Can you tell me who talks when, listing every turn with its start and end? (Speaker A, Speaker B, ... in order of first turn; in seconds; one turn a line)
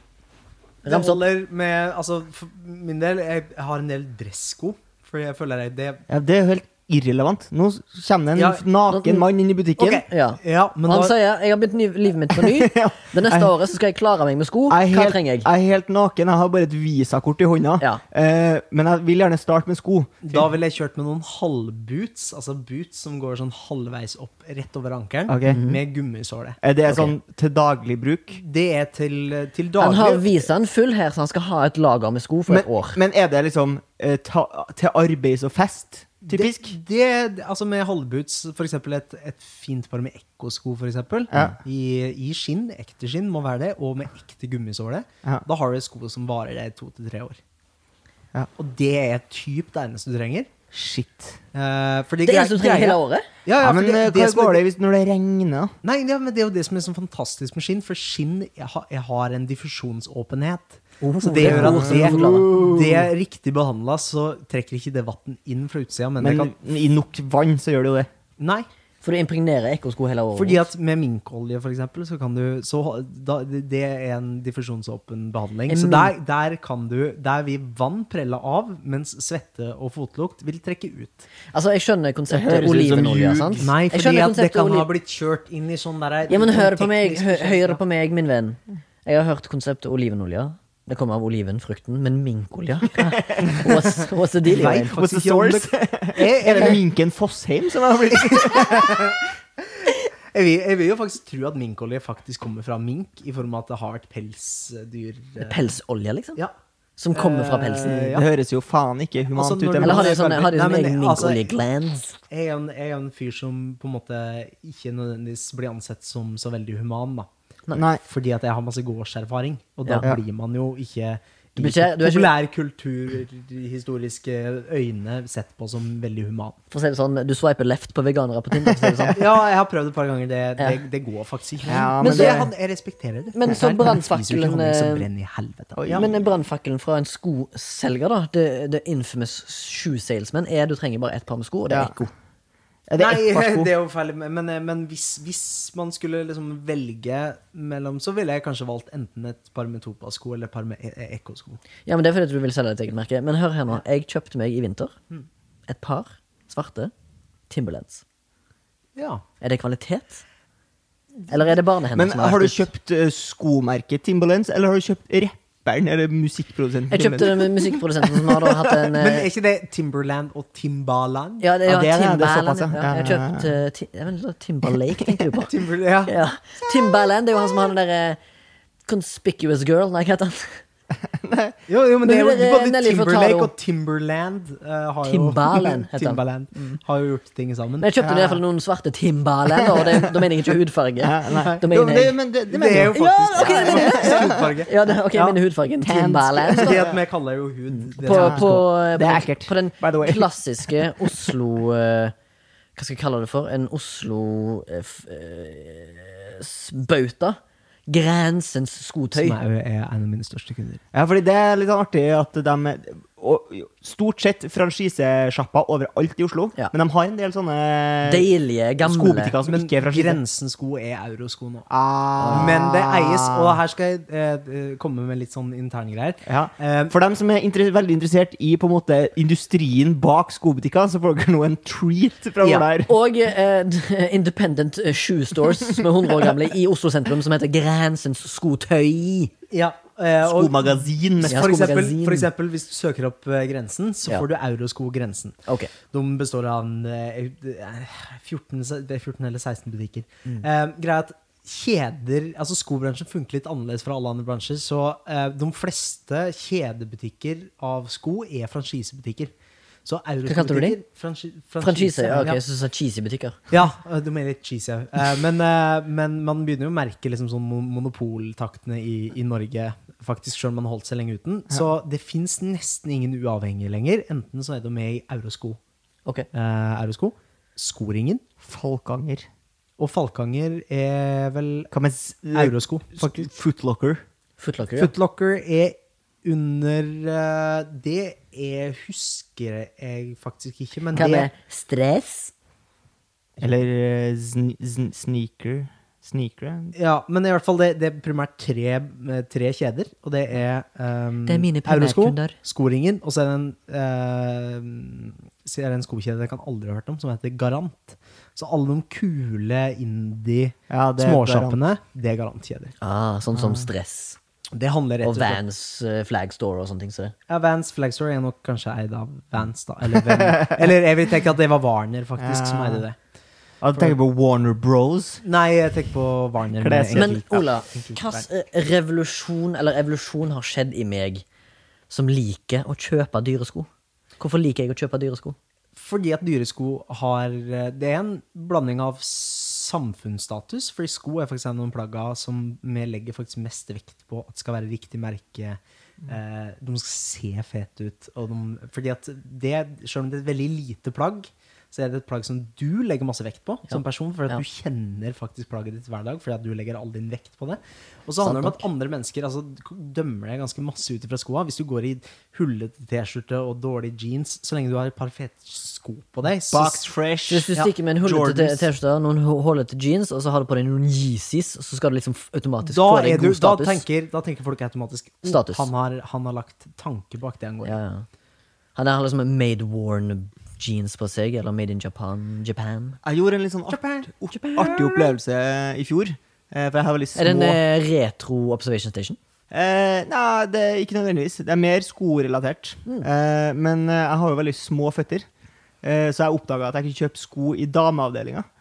Speaker A: 0.8-1.2
Speaker B: 0.8-6.0
Speaker C: 6.1-10.1
Speaker B: 8.3-8.6
Speaker A: 8.9-9.3
Speaker B: 9.8-11.2
Speaker A: 10.0-15.5
Speaker C: 12.3-13.5
Speaker C: 14.7-20.5
Speaker B: 20.2-26.6
Speaker C: 25.3-25.6
Speaker A: 25.5-25.8
Speaker C: 26.6-28.4
Speaker A: 26.9-27.1
Speaker B: 28.4-30.2
Speaker A: 29.8-33.0
Speaker C: 32.5-36.8
Speaker B: 36.3-47.4
Speaker C: 41.3-41.6
Speaker B: 48.6-50.5
Speaker C: 50.7-51.4
Speaker B: 51.5-54.6
Speaker A: 52.2-53.3
Speaker C: 53.6-55.7
Speaker B: 55.8-66.5
Speaker A: 61.0-62.7
Speaker C: 61.4-63.1
Speaker C: 66.2-68.1
Speaker B: 68.4-68.7
Speaker A: 69.0-70.7
Speaker B: 70.3-81.3
Speaker A: 75.7-76.1
Speaker A: 81.5-84.9
Speaker C: 82.3-83.7
Speaker B: 83.6-87.8
Speaker A: 86.3-95.0
Speaker C: 93.0-93.7
Speaker B: 94.5-96.8
Speaker C: 94.9-99.1
Speaker B: 98.1-105.7
Speaker A: 105.4-106.4
Speaker A: 107.0-108.2
Speaker B: 107.1-108.3
Speaker C: 107.8-110.3
Speaker B: 109.3-111.5
Speaker A: 109.8-112.2
Speaker B: 112.3-117.3
Speaker C: 117.8-118.0
Speaker B: 118.0-126.6
Speaker A: 121.6-122.3
Speaker A: 126.7-129.2
Speaker C: 128.6-129.2
Speaker B: 129.1-136.1
Speaker C: 131.7-132.5
Speaker A: 132.0-132.5
Speaker A: 133.3-135.1
Speaker C: 135.8-136.1
Speaker A: 135.9-142.1
Speaker C: 141.7-142.0
Speaker C: 142.9-143.7
Speaker B: 143.0-151.6
Speaker A: 151.9-155.0
Speaker A: 155.7-156.9
Speaker A: 157.5-158.0
Speaker B: 159.0-159.2
Speaker A: 159.4-160.2
Speaker A: 161.3-162.7
Speaker C: 161.9-168.6
Speaker A: 166.9-169.3
Speaker B: 168.9-171.5
Speaker A: 171.4-175.5
Speaker C: 171.7-173.5
Speaker B: 175.5-176.1
Speaker A: 176.1-178.2
Speaker A: 178.9-180.6
Speaker C: 181.1-181.6
Speaker B: 181.7-187.9
Speaker A: 182.1-183.5
Speaker A: 185.1-186.8
Speaker A: 187.8-192.2
Speaker C: 188.0-188.4
Speaker C: 191.0-194.6
Speaker B: 191.3-191.6
Speaker B: 192.5-195.4
Speaker A: 192.9-196.8
Speaker C: 195.8-197.0
Speaker B: 196.6-198.6
Speaker A: 197.8-202.1
Speaker C: 198.1-201.3
Speaker A: 202.8-209.4
Speaker B: 209.1-210.8
Speaker C: 210.9-218.3
Speaker A: 218.0-219.3
Speaker C: 218.8-220.2
Speaker B: 219.4-221.7
Speaker C: 221.7-223.6
Speaker A: 222.2-222.5
Speaker B: 222.3-226.9
Speaker C: 226.2-232.9
Speaker B: 232.4-232.7
Speaker A: 232.9-239.3
Speaker B: 239.5-245.4
Speaker C: 240.2-241.6
Speaker A: 241.2-242.3
Speaker B: 245.9-259.3
Speaker B: 259.9-262.4
Speaker A: 260.2-260.8
Speaker A: 261.6-263.4
Speaker B: 263.5-275.6
Speaker B: 276.3-278.2
Speaker C: 278.4-279.3
Speaker B: 279.8-281.7
Speaker C: 281.7-284.0
Speaker B: 282.3-283.1
Speaker A: 284.4-284.9
Speaker B: 284.8-291.3
Speaker A: 290.9-292.3
Speaker C: 293.4-296.8
Speaker B: 296.8-312.7
Speaker A: 301.3-302.4
Speaker C: 310.7-311.6
Speaker A: 312.8-314.2
Speaker C: 313.4-313.7
Speaker B: 314.5-315.4
Speaker A: 315.0-317.1
Speaker B: 317.3-323.0
Speaker C: 322.2-322.8
Speaker C: 323.6-325.2
Speaker B: 325.2-328.3
Speaker C: 326.6-327.2
Speaker A: 326.9-331.2
Speaker A: 331.9-333.7
Speaker A: 334.2-335.4
Speaker B: 335.8-366.8
Speaker A: 353.7-354.4
Speaker A: 358.2-358.6
Speaker C: 366.5-367.5
Speaker A: 367.3-373.8
Speaker C: 368.0-368.7
Speaker B: 372.6-377.8
Speaker A: 375.2-375.7
Speaker A: 377.6-378.1
Speaker A: 378.8-383.0
Speaker C: 383.1-387.6
Speaker B: 383.7-384.7
Speaker A: 384.3-384.8
Speaker A: 387.2-389.2
Speaker C: 389.5-395.3
Speaker C: 395.8-398.5